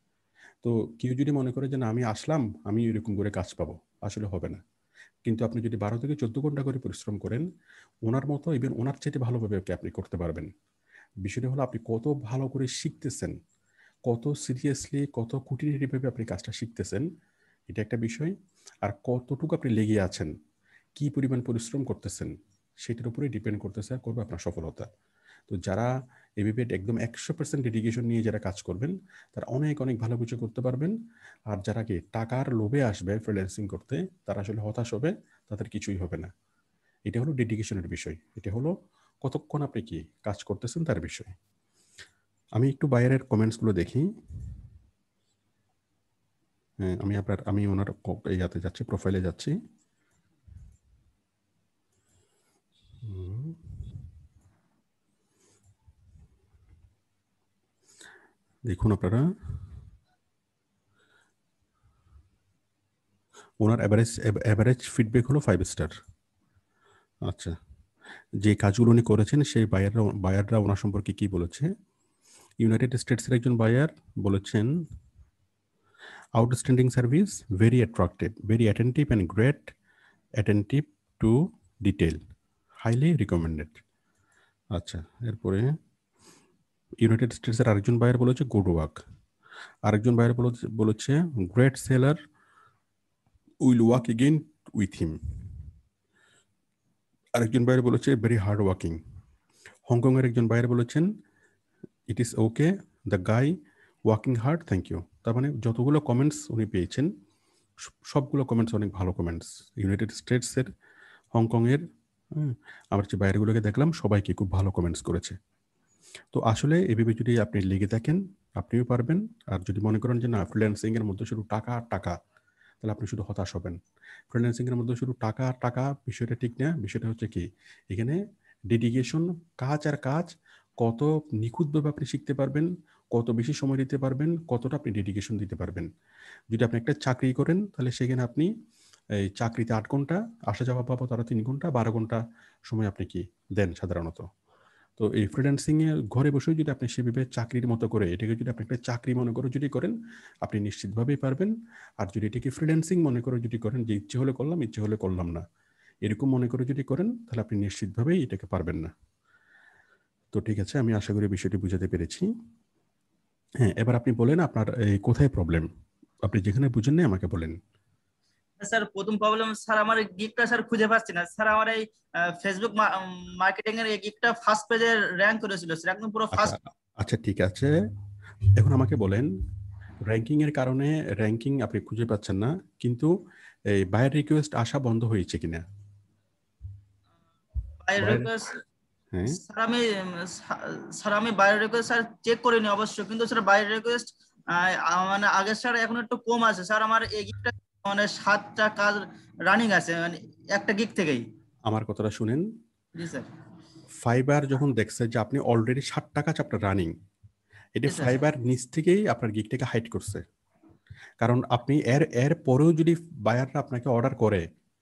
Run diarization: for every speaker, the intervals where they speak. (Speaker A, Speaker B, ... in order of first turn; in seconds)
Speaker A: 0.6-4.6, 5.3-7.4, 8.1-10.5, 11.2-13.3, 14.1-17.1, 17.7-20.3, 21.0-22.3, 22.8-24.9, 25.5-30.9, 31.5-36.3, 37.1-38.7, 39.2-41.3, 42.6-44.1, 46.8-49.6, 53.0-53.6, 58.7-59.2, 63.6-65.9, 67.3-67.5, 68.4-71.7, 72.6-74.7, 76.4-79.7, 80.4-82.2, 82.8-83.8, 84.8-85.7, 87.0-89.0, 89.9-92.2, 93.7-95.2, 97.4-99.0, 99.9-101.1, 102.1-103.5, 104.1-107.1, 108.1-110.7, 111.3-115.4, 116.3-122.2, 122.8-123.8, 124.3-135.9, 136.5-138.5, 139.2-144.3, 145.0-155.4, 156.1-158.9, 160.3-162.3, 163.6-165.7, 166.2-167.6, 176.3-177.7, 178.6-179.3, 180.1-183.1, 183.7-185.6, 188.0-188.3, 189.1-189.4, 201.7-202.4, 204.1-206.9, 207.8-210.2, 211.2-214.4
Speaker B: 168.6-176.5, 187.8-188.6, 189.3-201.2, 203.0-203.3, 207.9-208.2